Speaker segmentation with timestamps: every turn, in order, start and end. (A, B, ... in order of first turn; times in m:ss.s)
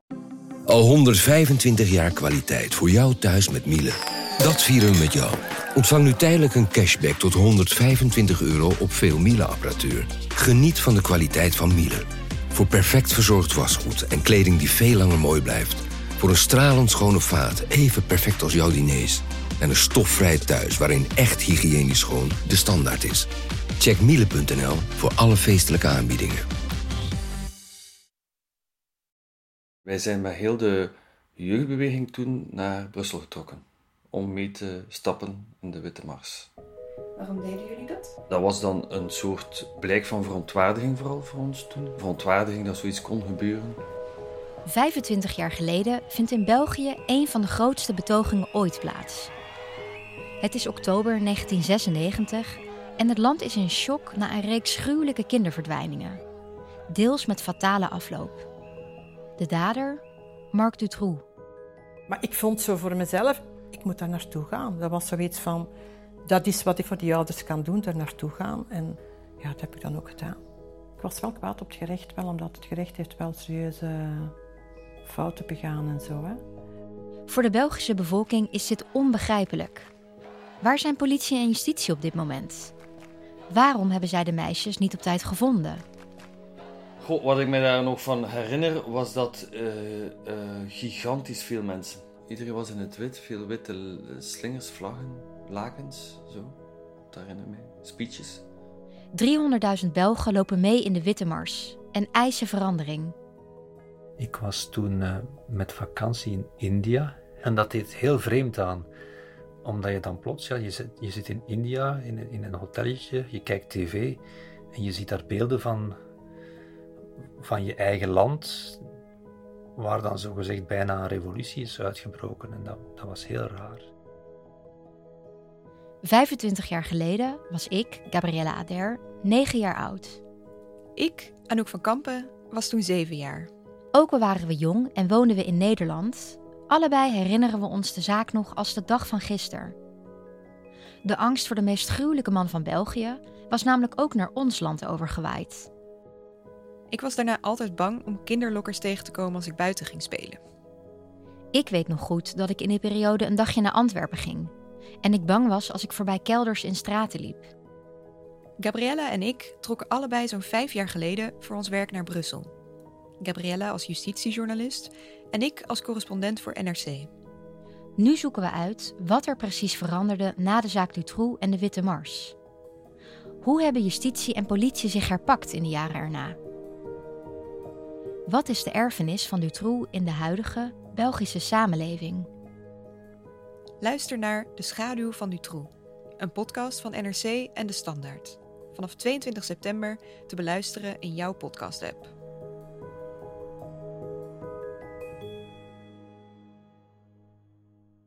0:00.7-0:23.3 A
0:23.8-0:26.4 A
0:29.9-0:36.5 B
0:37.2-0:38.1 C
0:38.3-0:43.8 B
0:44.6-0:49.3 D
0:50.4-0:56.2 D
0:56.9-0:58.5 D
0:59.4-1:01.2 D
1:02.1-1:05.7 E
1:06.3-1:10.4 E
1:11.0-1:14.3 E
1:15.0-1:16.4 E
1:17.3-1:19.9 D
1:20.6-1:22.7 D
1:23.5-1:25.8 D
1:27.0-1:36.6 B
1:37.1-1:38.4 B
1:39.1-1:43.2 D
1:44.2-1:48.9 F
1:49.6-1:54.2 F
1:54.7-1:56.0 F
1:57.4-1:58.8 F
1:59.8-2:03.9 F
2:06.0-2:10.2 D
2:11.0-2:13.5 C
2:13.9-2:19.8 D
2:21.0-2:25.7 D
2:26.9-2:30.4 C
2:31.5-2:37.5 D
2:38.6-2:42.5 C
2:43.2-2:47.1 C
2:48.0-2:52.4 D
2:53.4-2:56.4 D
2:58.3-3:02.3 D
3:03.8-3:12.1 C